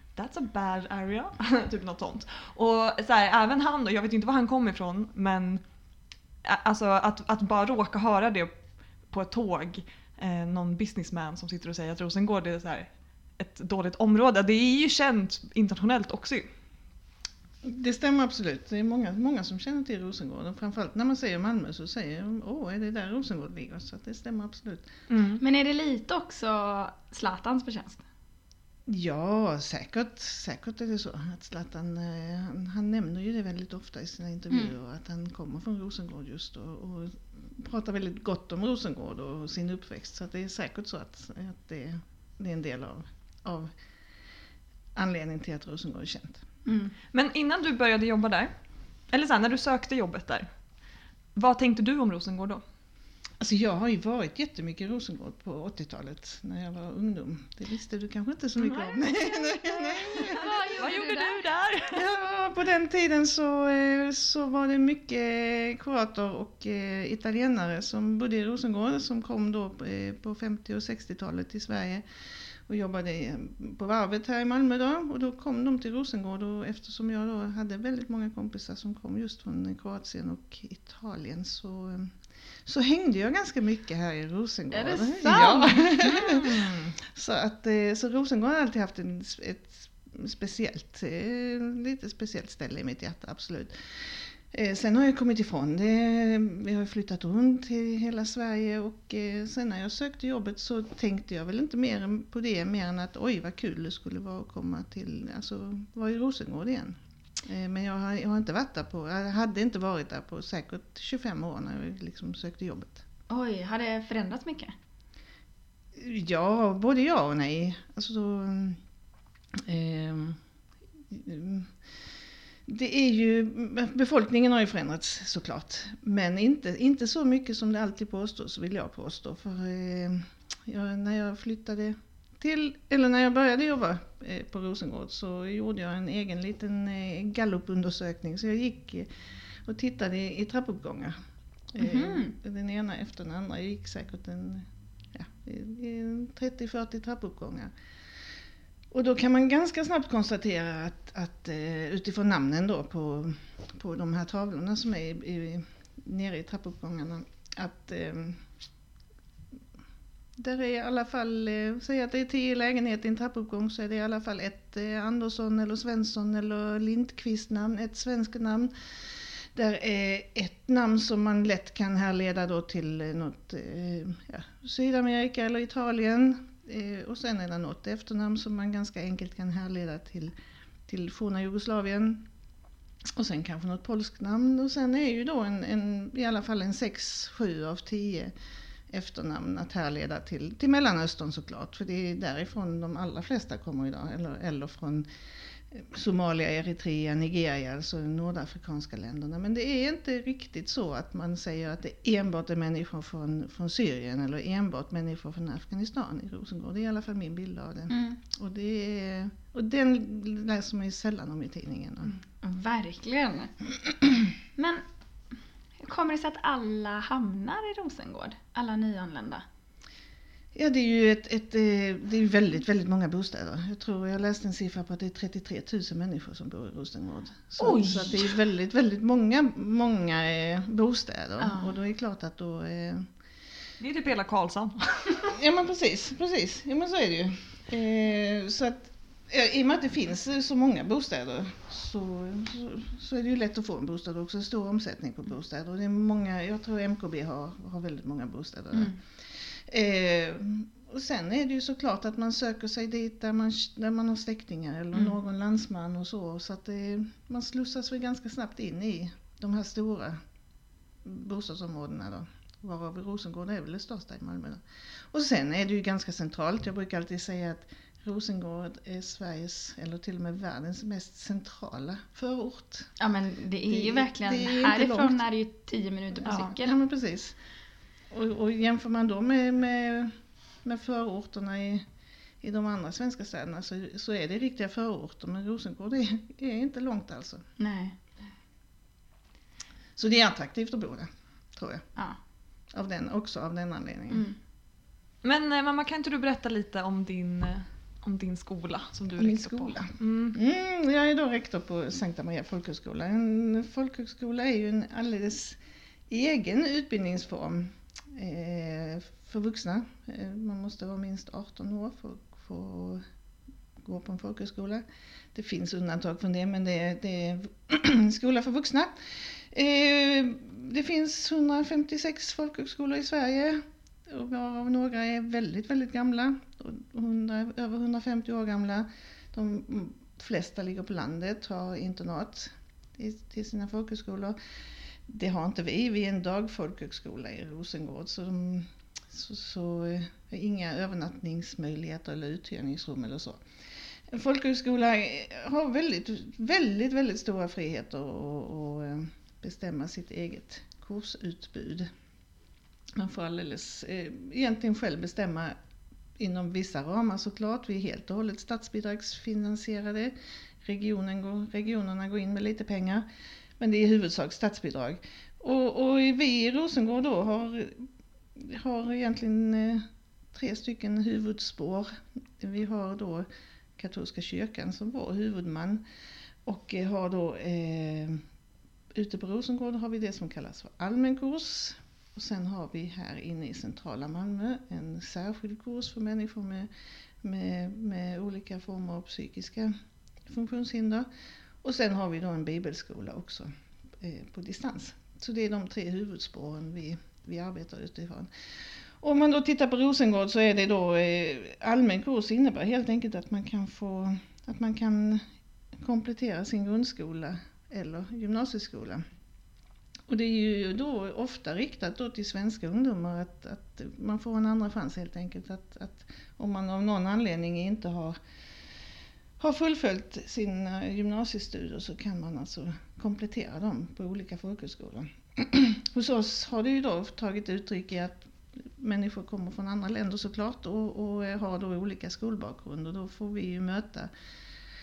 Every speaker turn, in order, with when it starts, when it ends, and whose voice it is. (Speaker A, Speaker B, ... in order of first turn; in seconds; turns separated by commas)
Speaker A: 0.2-5.6, Speaker A: 6.4-8.5, Speaker A: 9.1-16.5, Speaker B: 17.6-24.9, Speaker A: 25.1-25.4, Speaker C: 25.4-28.0, Speaker B: 28.9-43.7, Speaker B: 45.0-46.4, Speaker C: 46.7-46.9, Speaker A: 47.1-48.5, Speaker A: 49.1-50.5, Speaker A: 51.4-52.6, Speaker B: 53.4-60.5, Speaker C: 59.7-61.4, Speaker A: 60.3-62.1, Speaker B: 61.9-72.0, Speaker B: 72.7-113.0, Speaker C: 84.7-86.5, Speaker C: 113.3-114.7, Speaker B: 116.0-118.8, Speaker B: 119.5-120.4, Speaker B: 121.1-121.8, Speaker B: 122.7-139.1, Speaker B: 139.7-141.2, Speaker B: 141.7-147.7, Speaker C: 141.8-142.4, Speaker B: 148.9-158.4, Speaker B: 160.4-180.3, Speaker B: 180.9-182.2, Speaker B: 183.1-188.3, Speaker B: 188.9-195.1, Speaker B: 195.7-212.2, Speaker C: 207.9-208.2, Speaker C: 212.4-213.5, Speaker C: 214.6-214.8, Speaker C: 215.8-219.4, Speaker B: 220.5-233.1, Speaker C: 227.6-228.4, Speaker C: 231.4-231.8, Speaker A: 233.8-235.4, Speaker B: 235.3-260.2, Speaker B: 261.0-272.9, Speaker C: 273.0-276.8, Speaker B: 273.7-275.2, Speaker B: 276.2-277.4, Speaker B: 278.1-281.9, Speaker B: 282.4-287.4, Speaker C: 287.6-288.0, Speaker B: 290.0-291.9, Speaker B: 292.7-294.3, Speaker C: 294.1-294.4, Speaker A: 295.2-300.4, Speaker B: 299.2-313.0, Speaker B: 313.8-334.4, Speaker B: 335.1-343.4, Speaker B: 344.1-351.9, Speaker B: 353.0-355.6, Speaker B: 356.2-363.1, Speaker B: 363.6-375.8, Speaker B: 376.4-378.2, Speaker B: 378.9-386.7, Speaker B: 387.2-389.7, Speaker B: 390.3-391.1, Speaker B: 391.6-398.3, Speaker B: 399.0-409.0, Speaker B: 410.1-418.2, Speaker B: 419.4-434.1